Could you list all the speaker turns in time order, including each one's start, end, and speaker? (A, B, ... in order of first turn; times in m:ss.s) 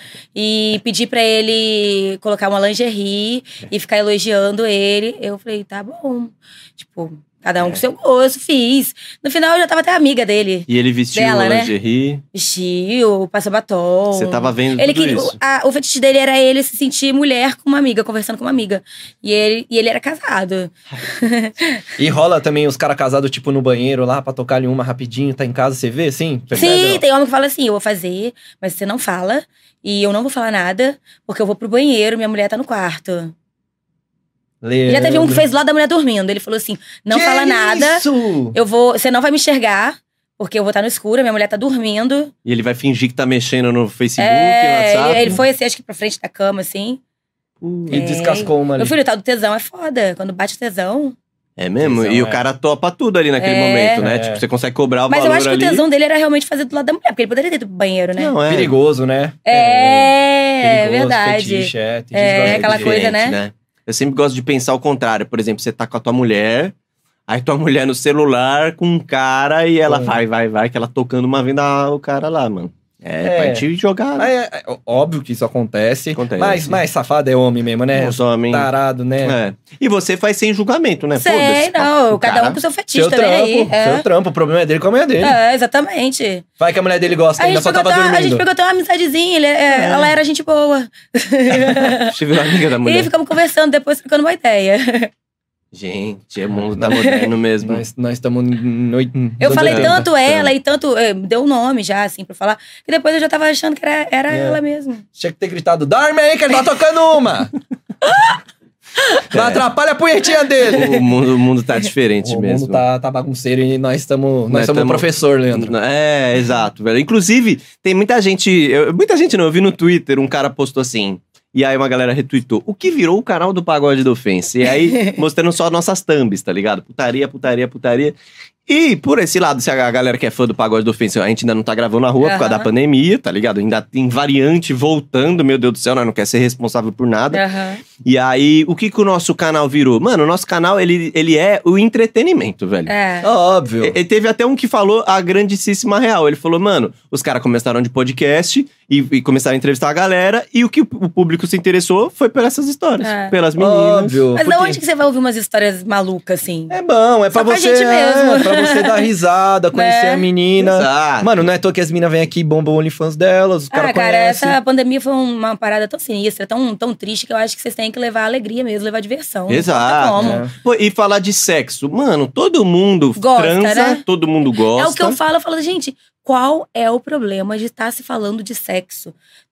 0:00.4-0:11.7 A
0:10.7-0:12.2 B
0:12.3-0:21.9 A
0:14.1-0:15.4 B
0:22.0-0:27.0 C
0:26.5-0:33.3 A
0:34.6-0:35.5 C
0:34.9-0:42.3 A
0:37.1-0:38.6 C
0:42.4-0:45.4 B
0:44.2-0:47.0 A
0:47.6-0:48.0 B
0:47.9-0:49.0 C
0:47.9-0:51.2 A
0:51.6-0:55.8 B
0:51.8-0:52.4 C
0:53.4-0:54.0 A
0:54.0-0:54.4 C
0:55.1-0:58.4 A
0:58.2-0:58.7 B
0:58.5-1:00.1 C
0:59.5-1:03.4 A
1:00.6-1:03.0 C
1:02.4-1:06.7 B
1:07.3-1:14.3 B
1:09.9-1:10.2 C
1:13.2-1:13.6 C
1:14.2-1:19.4 C
1:16.1-1:16.8 B
1:17.9-1:18.7 B
1:19.2-1:22.6 B
1:21.2-1:24.0 A
1:22.9-1:25.4 C
1:25.2-1:26.5 A
1:26.6-1:28.4 C
1:27.4-1:35.1 A
1:29.8-1:30.1 B
1:32.0-1:33.1 B
1:35.7-1:37.8 B
1:36.5-1:37.0 C
1:37.0-1:37.3 A
1:37.6-1:40.1 C
1:39.4-1:45.0 A
1:39.5-1:40.5 B
1:44.3-1:44.6 C
1:45.2-1:47.5 C
1:49.3-1:49.6 B
1:49.3-1:51.0 C
1:50.6-1:52.8 B
1:52.2-1:55.8 C
1:54.5-2:08.2 B
2:08.7-2:17.4 B
2:12.2-2:12.7 A
2:17.3-2:17.8 A
2:18.0-2:22.9 B
2:22.9-2:23.3 A
2:23.2-2:24.0 C
2:23.8-2:34.2 B
2:33.0-2:33.4 A
2:33.6-2:34.8 C
2:34.4-2:36.8 A
2:36.7-2:44.6 C
2:37.3-2:39.1 A
2:39.7-2:40.2 A
2:40.6-2:41.5 B
2:43.7-2:50.4 A
2:49.5-2:55.2 B
2:50.2-2:50.5 C
2:53.2-2:54.0 A
2:54.7-2:59.1 A